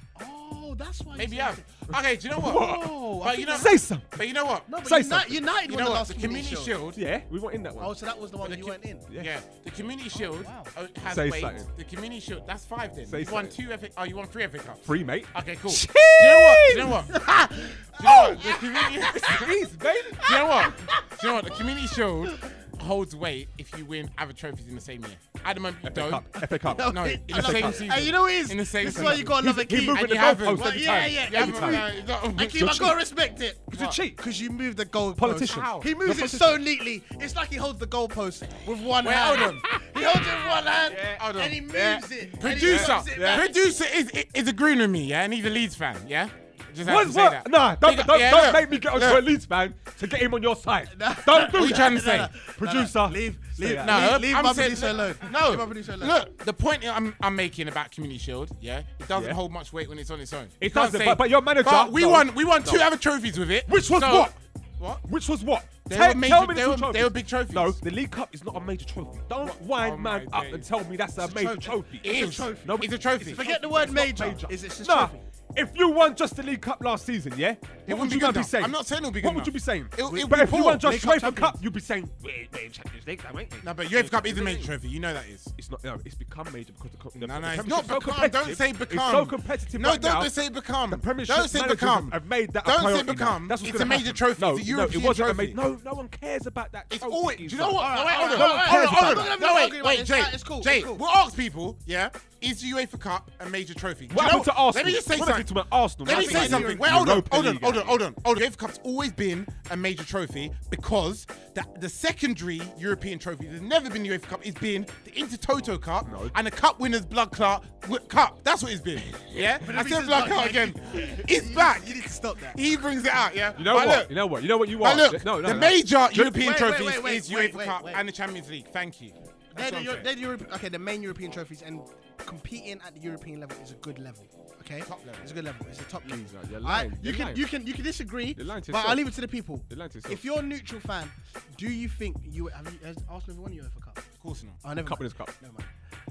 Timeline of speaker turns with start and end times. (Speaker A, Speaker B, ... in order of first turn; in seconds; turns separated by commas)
Speaker A: 0.2-1.6, Speaker B: 1.1-4.7, Speaker C: 2.4-2.9, Speaker A: 2.4-3.7, Speaker C: 3.5-4.2, Speaker A: 4.7-6.8, Speaker C: 4.8-5.4, Speaker B: 5.7-7.0, Speaker C: 7.0-8.0, Speaker A: 7.8-9.1, Speaker B: 8.4-19.5, Speaker C: 9.1-9.4, Speaker A: 10.2-10.7, Speaker C: 11.1-11.7, Speaker C: 13.1-13.6, Speaker C: 14.8-17.0, Speaker A: 17.1-21.3, Speaker C: 19.1-20.2, Speaker B: 20.2-32.6, Speaker C: 25.8-28.1, Speaker A: 26.7-43.6, Speaker C: 28.8-31.9, Speaker C: 32.5-33.0, Speaker C: 33.7-34.2, Speaker C: 35.2-36.2, Speaker B: 35.4-36.5, Speaker B: 39.0-39.7, Speaker C: 40.9-41.2, Speaker B: 41.2-49.2, Speaker C: 42.3-43.5, Speaker C: 46.8-54.1, Speaker A: 50.9-56.2, Speaker B: 51.4-52.3, Speaker B: 53.8-65.0, Speaker C: 59.1-59.4, Speaker C: 60.6-62.9, Speaker C: 63.7-64.4, Speaker C: 65.0-84.7, Speaker B: 65.9-67.8, Speaker B: 69.4-70.7, Speaker A: 71.2-72.8, Speaker B: 72.0-73.5, Speaker A: 73.3-75.2, Speaker B: 77.9-80.8, Speaker A: 80.1-81.6, Speaker B: 83.6-85.5, Speaker C: 85.6-90.3, Speaker B: 87.2-95.6, Speaker C: 90.9-99.4, Speaker B: 96.9-105.5, Speaker A: 97.8-101.0, Speaker C: 104.1-108.0, Speaker A: 104.2-104.5, Speaker B: 106.0-124.1, Speaker A: 106.0-106.8, Speaker C: 116.1-116.3, Speaker A: 119.6-122.6, Speaker C: 123.6-126.2, Speaker B: 124.7-130.1, Speaker A: 126.1-128.0, Speaker A: 129.5-144.0, Speaker B: 134.8-135.2, Speaker C: 136.1-137.4, Speaker C: 138.3-139.1, Speaker C: 139.7-140.2, Speaker B: 144.2-144.6, Speaker A: 144.6-145.7, Speaker C: 144.8-145.3